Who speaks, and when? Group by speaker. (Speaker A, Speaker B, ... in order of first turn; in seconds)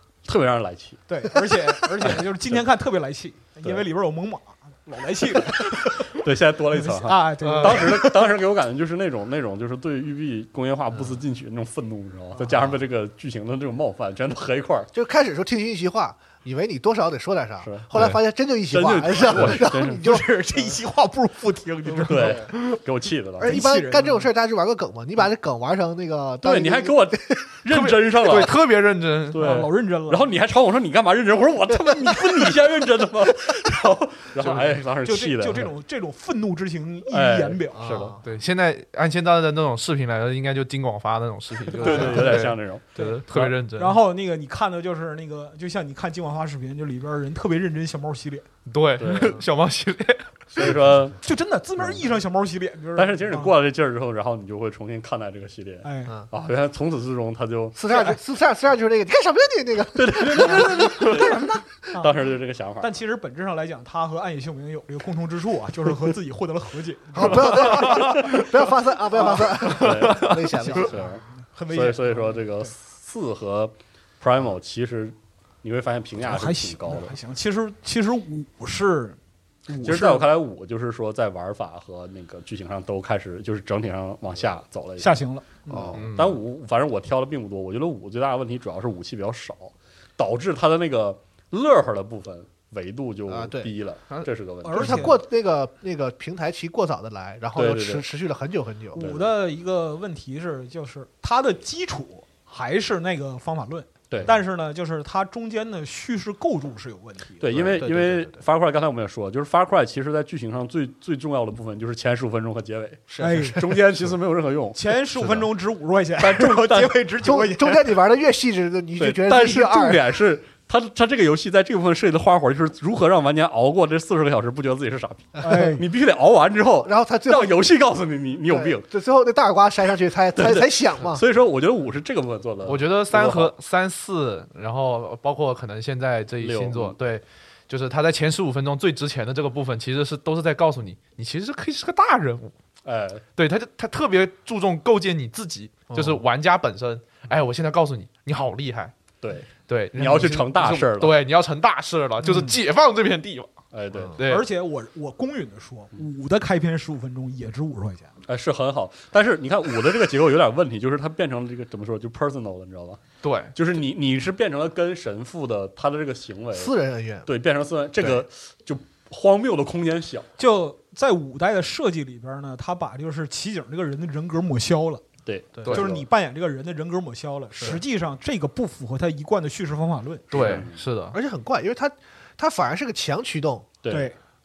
Speaker A: 0.2-1.0, 5.5-14.9, 17.6-20.1, 22.0-23.6, 26.4-28.6, 29.3-35.7, 37.1-38.2, 41.7-43.5, 49.0-49.4, 50.5-51.2, 53.0-57.8, 59.9-62.9, 67.7-68.4, 69.6-77.1, 79.8-85.2, 85.7-95.1, 97.5-98.1, 99.0-99.3, 107.4-114.9, 116.2-117.0, 119.0-128.8, 130.3-133.5, 136.4-137.0, 142.8-143.2, 149.2-151.2, 153.7-154.2, 158.3-170.3, 175.2-176.0, 180.3-180.8, 183.8-184.1
Speaker B: 1.1-6.2, 6.7-8.2, 19.4-22.8, 23.4-24.2, 29.3-30.3, 35.0-38.0, 41.8-42.4, 43.0-48.5, 51.2-53.5, 55.8-56.1, 57.9-58.2, 61.0-62.1, 62.8-68.1, 69.2-69.5, 70.6-72.7, 76.2-80.3, 85.0-85.9, 94.6-95.2, 98.9-107.5, 113.2-113.6, 114.7-117.9, 125.4-125.8, 152.2-152.6, 154.2-158.1, 170.4-175.0, 175.7-180.6, 183.9-184.2
Speaker C: 7.4-7.9, 27.7-29.6, 38.2-44.0, 48.6-50.7, 69.8-70.3, 85.9-86.4, 132.6-142.5, 143.4-148.9, 149.7-153.5, 154.1-154.5, 163.2-163.5, 180.3-181.2
Speaker D: 14.9-20.2, 23.4-27.6, 37.8-38.2, 57.7-61.2, 67.1-71.0, 85.7-86.1, 93.3-93.7, 94.7-99.0, 107.5-108.4, 113.1-113.6, 117.2-120.0, 126.8-127.6, 128.5-131.2, 145.9-146.2, 166.5-167.3, 175.6-175.8, 181.1-183.7